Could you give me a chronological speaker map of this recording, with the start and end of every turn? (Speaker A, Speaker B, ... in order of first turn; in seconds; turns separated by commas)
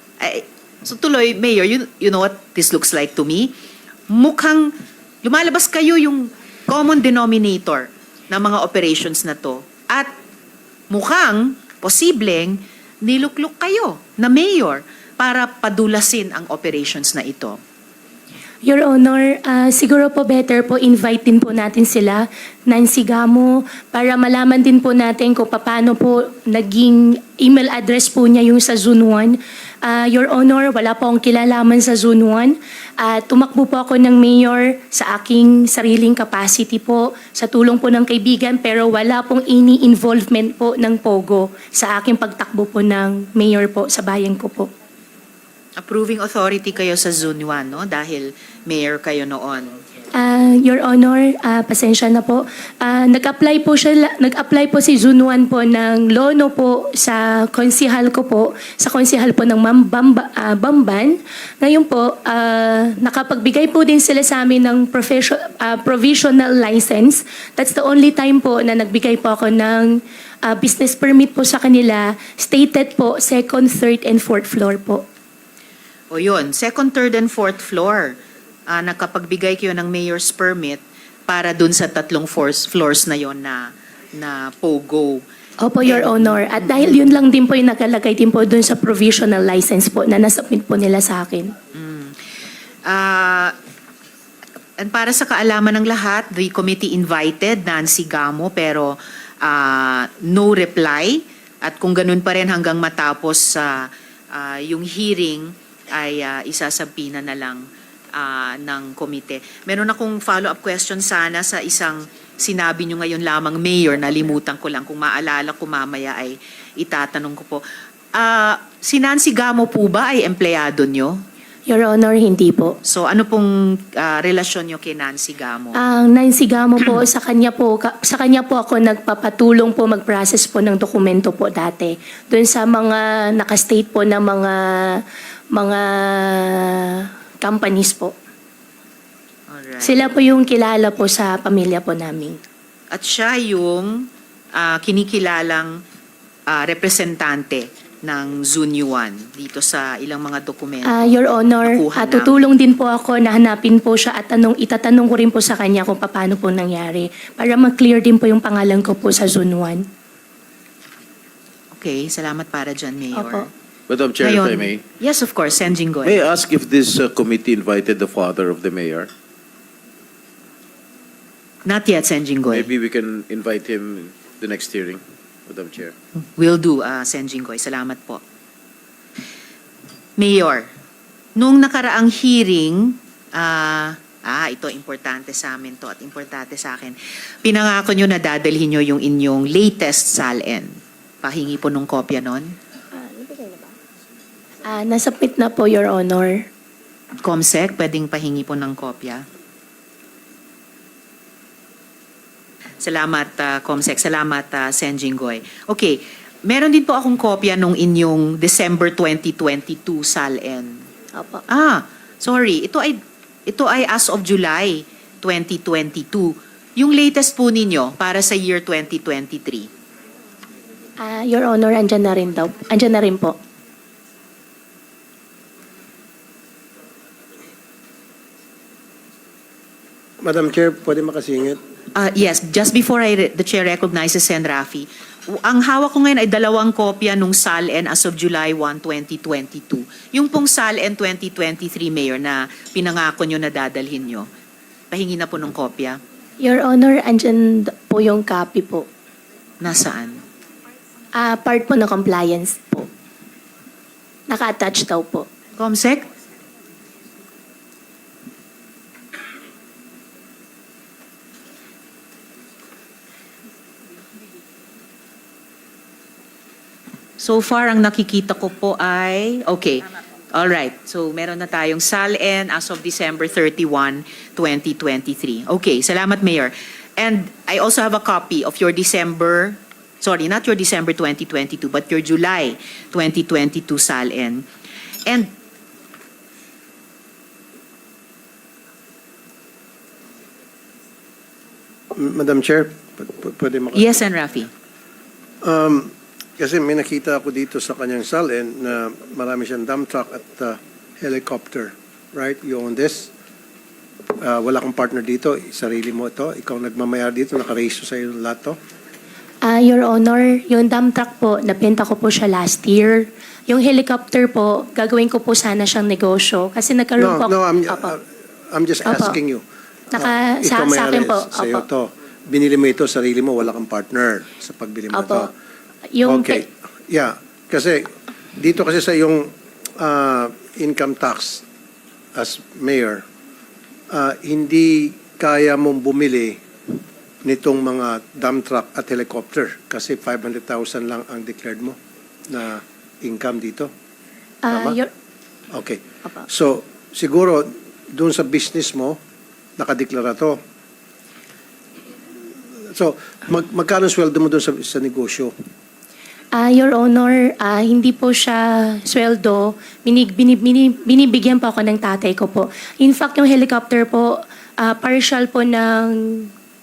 Speaker A: 0.2-3.5, Speaker A: 4.1-10.1, Speaker A: 10.9-17.6, Speaker B: 18.6-44.7, Speaker A: 45.8-49.8, Speaker B: 50.2-75.0, Speaker A: 76.1-85.2, Speaker B: 85.6-91.5, Speaker A: 85.8-87.1, Speaker A: 91.7-92.2, Speaker A: 92.9-93.5, Speaker A: 94.8-117.6, Speaker A: 118.2-121.2, Speaker B: 121.7-122.8, Speaker A: 122.8-125.8, Speaker B: 125.8-138.2, Speaker A: 139.5-140.1, Speaker B: 139.8-142.4, Speaker A: 142.9-145.8, Speaker A: 146.5-152.5, Speaker B: 150.8-159.9, Speaker A: 161.7-163.5, Speaker B: 163.2-163.5, Speaker C: 163.9-164.8, Speaker A: 164.2-166.2, Speaker C: 166.1-169.1, Speaker A: 171.7-172.7, Speaker C: 172.5-175.9, Speaker A: 176.4-178.2, Speaker A: 180.2-180.7, Speaker A: 181.4-192.6, Speaker B: 192.9-193.8, Speaker B: 194.7-196.5, Speaker A: 197.2-199.2, Speaker A: 202.8-210.8, Speaker B: 211.2-211.4, Speaker A: 211.5-219.7, Speaker B: 221.0-223.4, Speaker D: 230.2-231.6, Speaker A: 232.0-244.3, Speaker A: 244.9-246.0, Speaker B: 246.4-248.9, Speaker A: 249.6-250.2, Speaker B: 251.2-252.9, Speaker B: 254.3-255.3, Speaker A: 255.6-256.1, Speaker A: 267.2-284.5, Speaker A: 285.1-285.3, Speaker D: 291.9-294.0, Speaker A: 293.7-294.5, Speaker D: 295.4-303.1, Speaker D: 304.2-308.6, Speaker B: 309.4-317.9, Speaker D: 317.0-325.3, Speaker B: 318.9-319.2, Speaker B: 319.9-321.6, Speaker B: 324.9-325.3, Speaker B: 325.9-326.4, Speaker D: 326.0-331.4, Speaker D: 332.1-333.0, Speaker D: 333.9-336.4, Speaker D: 337.2-343.7, Speaker B: 344.4-344.9, Speaker D: 344.5-344.8, Speaker D: 345.5-349.0, Speaker D: 349.6-350.4, Speaker D: 352.7-355.3, Speaker B: 356.3-366.3